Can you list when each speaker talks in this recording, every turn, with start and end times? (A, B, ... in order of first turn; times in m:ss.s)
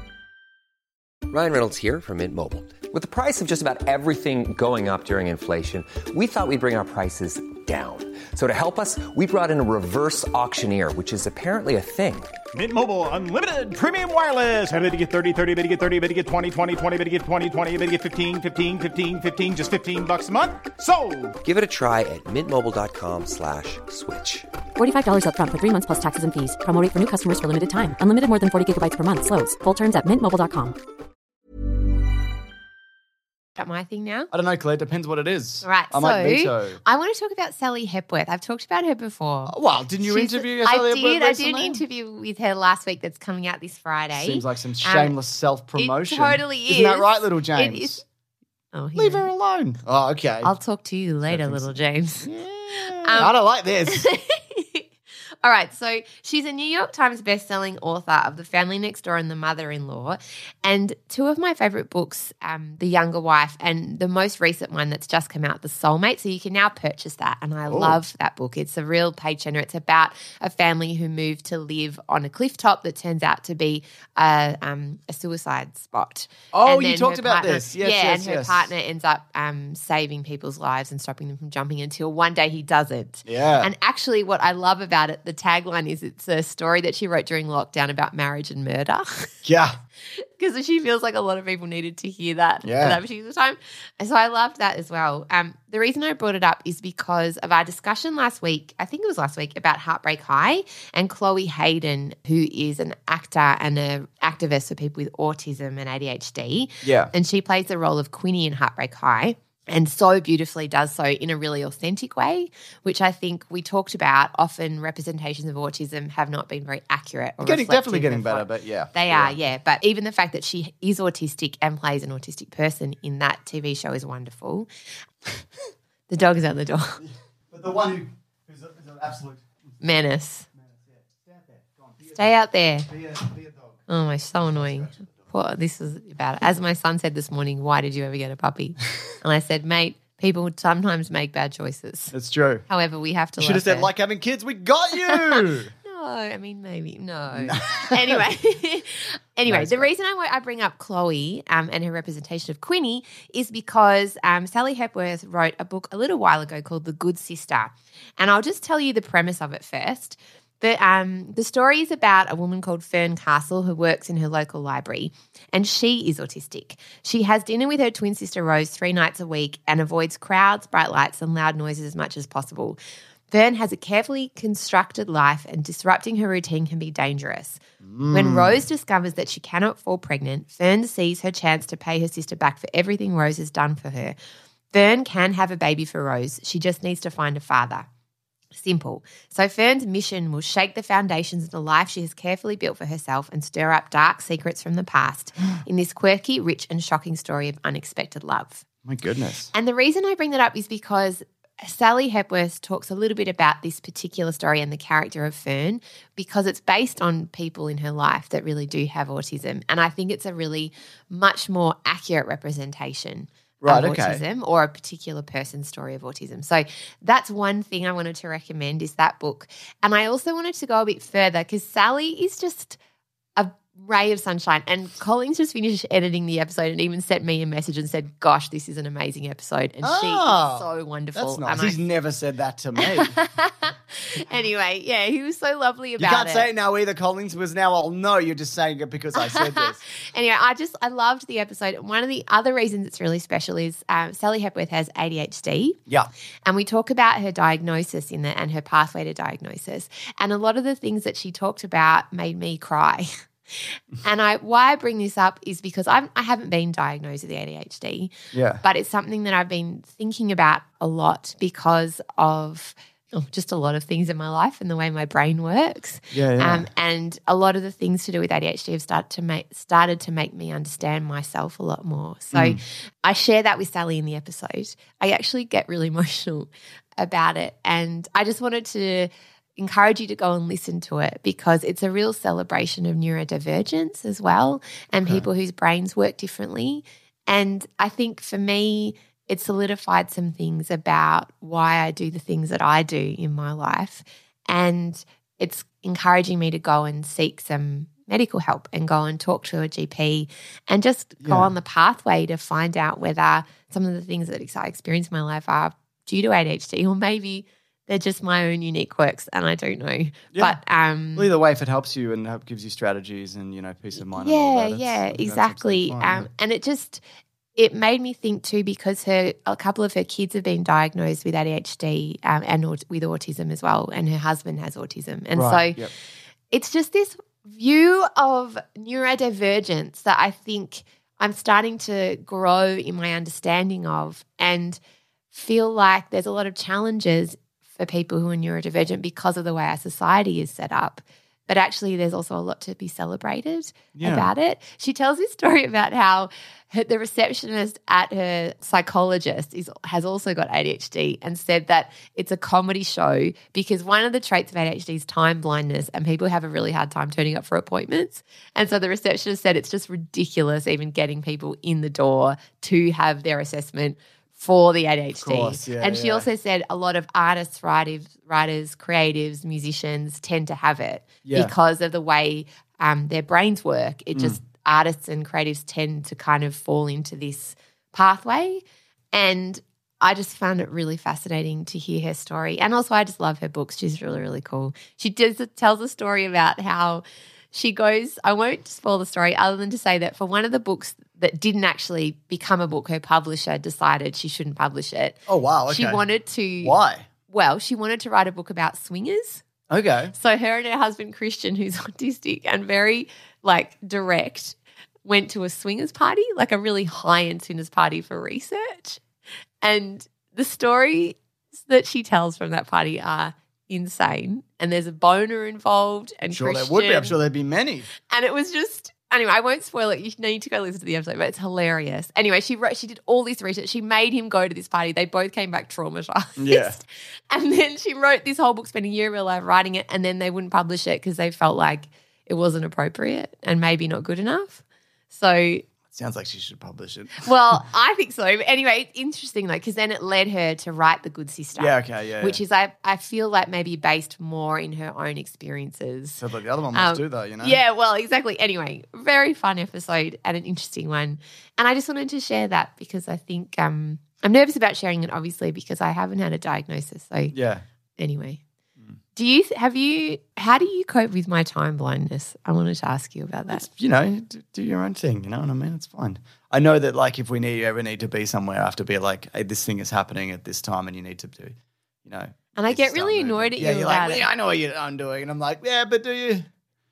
0:01.3-0:12.4 A
0:12.5-0:21.4 B
0:21.4-0:24.5 A
0:24.8-0:30.8 C
0:33.6-0:34.3 D
0:34.3-0:36.8 E
0:35.6-0:45.1 D
0:39.5-0:41.8 E
0:44.1-0:48.0 E
0:45.8-0:48.0 D
0:48.7-0:49.3 D
0:49.0-0:50.5 E
0:50.4-0:52.3 D
0:51.2-0:54.0 E
0:53.0-0:53.3 D
0:53.9-0:54.8 D
0:55.4-1:29.3 D
1:07.7-1:08.0 E
1:16.5-1:18.7 E
1:23.2-1:23.7 E
1:29.4-1:29.8 E
1:30.2-2:04.7 D
1:32.6-1:33.0 E
1:46.8-1:47.1 E
1:57.4-1:59.4 E
2:06.1-2:07.0 D
2:07.0-2:09.4 E
2:09.8-2:10.5 D
2:10.6-2:12.3 E
2:12.1-2:12.9 D
2:12.9-2:13.7 E
2:13.9-2:22.1 D
2:14.6-2:15.1 E
2:22.1-2:22.6 E
2:22.7-2:23.9 D
2:23.4-2:25.7 E
2:25.0-2:52.8 D
2:27.3-2:28.3 E
2:29.5-2:29.9 E
2:53.3-3:04.2 D
2:57.8-2:58.6 E
3:04.7-3:07.8 D
3:08.6-3:18.6 D
3:18.8-3:19.5 E
3:19.5-3:42.8 D
3:33.6-3:34.2 E
3:43.4-3:51.8 D
3:49.8-3:53.2 E
3:52.8-3:56.5 D
3:56.0-3:59.8 E
3:59.2-4:05.8 D
4:06.4-4:18.1 D
4:18.3-4:18.6 E
4:18.6-5:11.3 D
4:26.1-4:26.7 E
4:32.3-4:32.6 E
5:01.2-5:01.5 E
5:10.3-5:10.6 E
5:11.1-5:16.3 E
5:14.1-5:17.0 D
5:17.6-5:25.8 D
5:25.3-5:25.9 E
5:26.5-5:34.8 D
5:35.3-6:35.2 D
5:43.9-5:44.3 E
6:05.2-6:06.3 E
6:11.2-6:11.5 E
6:14.1-6:14.4 E
6:35.3-6:36.0 E
6:35.7-6:36.7 D
6:36.6-6:37.1 E
6:37.3-6:39.4 D
6:39.7-6:40.1 E
6:40.1-6:49.0 D
6:49.6-6:57.2 D
6:56.3-6:57.9 E
6:58.0-7:15.6 D
7:06.4-7:06.8 E
7:15.9-7:17.6 E
7:17.2-7:26.2 D
7:21.6-7:22.4 E
7:26.2-7:27.6 E
7:26.7-7:37.3 D
7:37.3-7:37.6 E
7:38.0-7:38.4 D
7:39.1-7:43.6 D
7:43.5-7:56.5 E
7:52.6-7:54.2 D